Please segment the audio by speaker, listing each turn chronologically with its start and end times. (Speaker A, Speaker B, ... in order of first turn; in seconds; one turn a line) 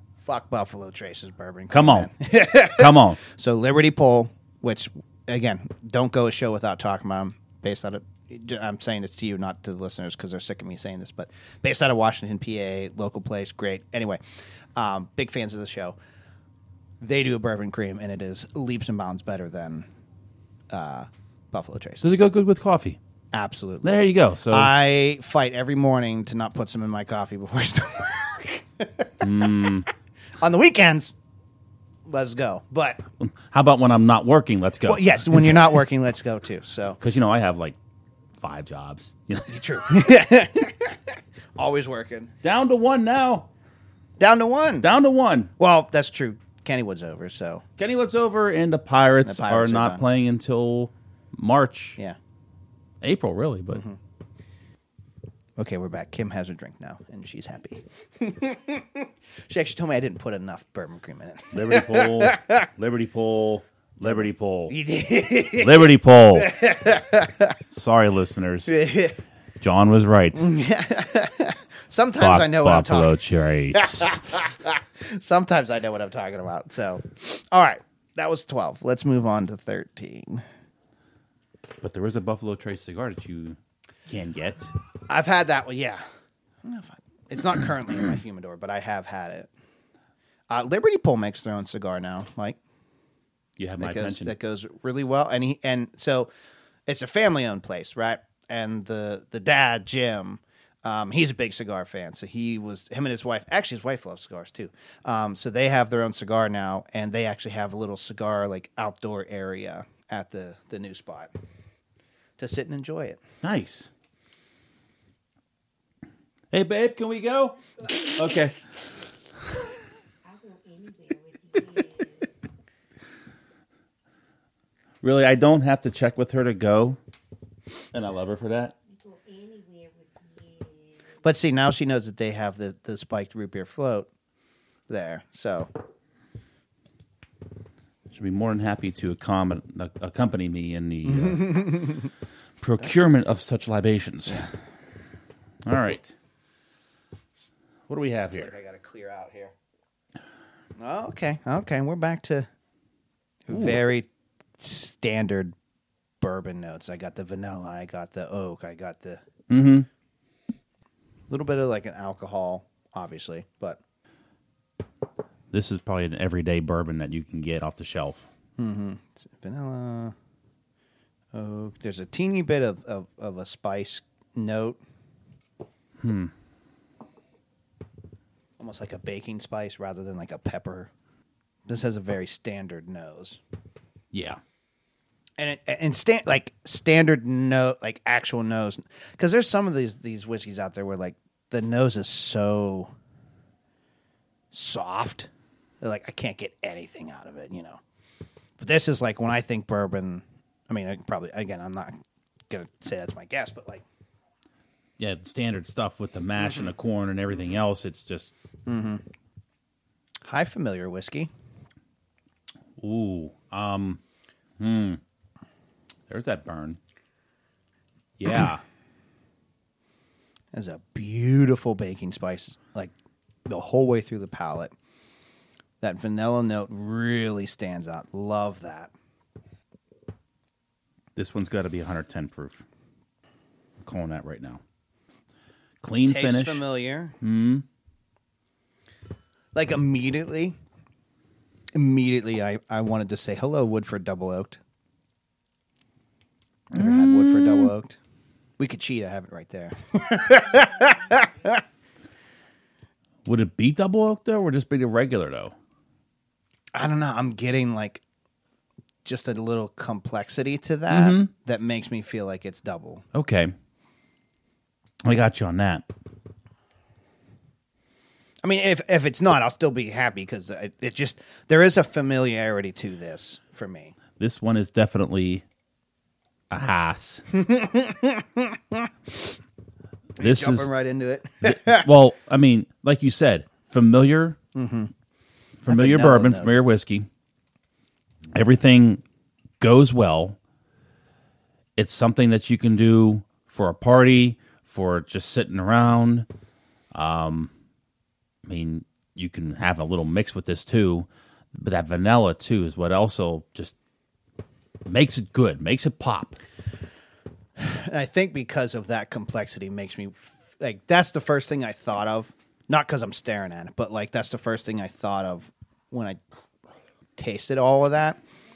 Speaker A: 0.2-14.2
Speaker B: 1.7-3.2
Speaker A: 14.8-16.0
Speaker A: 17.0-19.9
Speaker A: 20.7-22.1
Speaker B: 22.0-23.0
Speaker A: 23.3-24.0
Speaker B: 23.8-24.7
Speaker A: 24.5-29.9
Speaker B: 29.2-29.9
Speaker A: 30.4-31.1
Speaker A: 32.1-33.0
Speaker B: 33.2-35.8
Speaker A: 34.9-37.0
Speaker B: 37.0-37.8
Speaker B: 38.4-39.6
Speaker A: 39.5-42.3
Speaker B: 42.4-43.5
Speaker A: 44.2-44.9
Speaker B: 44.8-45.5
Speaker A: 45.6-47.6
Speaker B: 47.8-52.0
Speaker A: 49.2-50.0
Speaker B: 53.0-53.8
Speaker A: 53.7-54.0
Speaker A: 55.6-62.7
Speaker B: 61.5-64.7
Speaker A: 64.0-67.6
Speaker B: 65.6-66.5
Speaker B: 67.7-68.7
Speaker A: 68.7-69.2
Speaker B: 69.6-70.5
Speaker A: 70.3-73.2
Speaker B: 72.2-74.2
Speaker A: 73.7-80.5
Speaker B: 81.8-84.7
Speaker A: 85.1-86.0
Speaker A: 86.6-89.5
Speaker A: 90.5-92.6
Speaker B: 93.6-94.3
Speaker A: 93.8-96.3
Speaker A: 96.9-111.3
Speaker A: 112.4-113.2
Speaker B: 113.4-113.9
Speaker B: 116.5-118.6
Speaker C: 120.3-122.1
Speaker B: 125.0-127.0
Speaker B: 127.9-128.8
Speaker C: 129.1-130.9
Speaker A: 131.2-134.1
Speaker A: 134.9-135.7
Speaker B: 138.1-141.8
Speaker A: 141.1-142.1
Speaker B: 142.6-144.5
Speaker B: 145.6-146.2
Speaker B: 147.9-148.5
Speaker A: 148.3-149.5
Speaker A: 150.8-152.5
Speaker A: 153.5-154.1
Speaker B: 153.5-153.8
Speaker A: 154.6-155.6
Speaker A: 156.2-159.2
Speaker B: 159.5-159.9
Speaker A: 161.3-163.8
Speaker B: 165.5-168.3
Speaker A: 168.6-170.2
Speaker A: 171.3-174.8
Speaker B: 176.0-176.3
Speaker A: 178.6-180.9
Speaker A: 181.7-183.4
Speaker B: 184.1-184.4
Speaker A: 185.4-192.9
Speaker A: 194.5-195.3
Speaker A: 195.8-197.8
Speaker A: 198.6-202.0
Speaker A: 202.5-203.8
Speaker B: 205.0-208.3
Speaker A: 208.7-209.0
Speaker A: 210.2-211.3
Speaker B: 212.8-214.0
Speaker B: 214.6-215.0
Speaker B: 216.1-216.8
Speaker B: 218.2-218.6
Speaker A: 220.5-222.9
Speaker A: 223.5-224.7
Speaker A: 225.8-228.9
Speaker B: 231.2-232.7
Speaker B: 233.8-234.6
Speaker B: 235.8-236.6
Speaker A: 236.1-237.2
Speaker B: 237.2-237.7
Speaker A: 239.5-240.6
Speaker A: 241.7-244.6
Speaker B: 246.7-247.7
Speaker A: 246.7-248.0
Speaker A: 248.6-251.6
Speaker B: 253.2-255.6
Speaker A: 256.7-258.0
Speaker A: 259.1-263.1
Speaker B: 260.9-261.3
Speaker B: 263.1-263.5
Speaker B: 265.0-265.9
Speaker A: 268.4-273.9
Speaker B: 274.2-275.4
Speaker B: 276.5-277.2
Speaker A: 277.3-278.9
Speaker A: 280.2-281.9
Speaker B: 280.2-280.7
Speaker B: 281.4-284.4
Speaker A: 284.5-284.9
Speaker B: 285.6-287.1
Speaker A: 285.7-286.6
Speaker B: 288.3-289.0
Speaker B: 289.6-290.4
Speaker B: 291.8-296.3
Speaker B: 296.9-297.5
Speaker B: 298.4-303.8
Speaker B: 304.9-306.4
Speaker A: 307.6-316.2
Speaker A: 317.2-318.2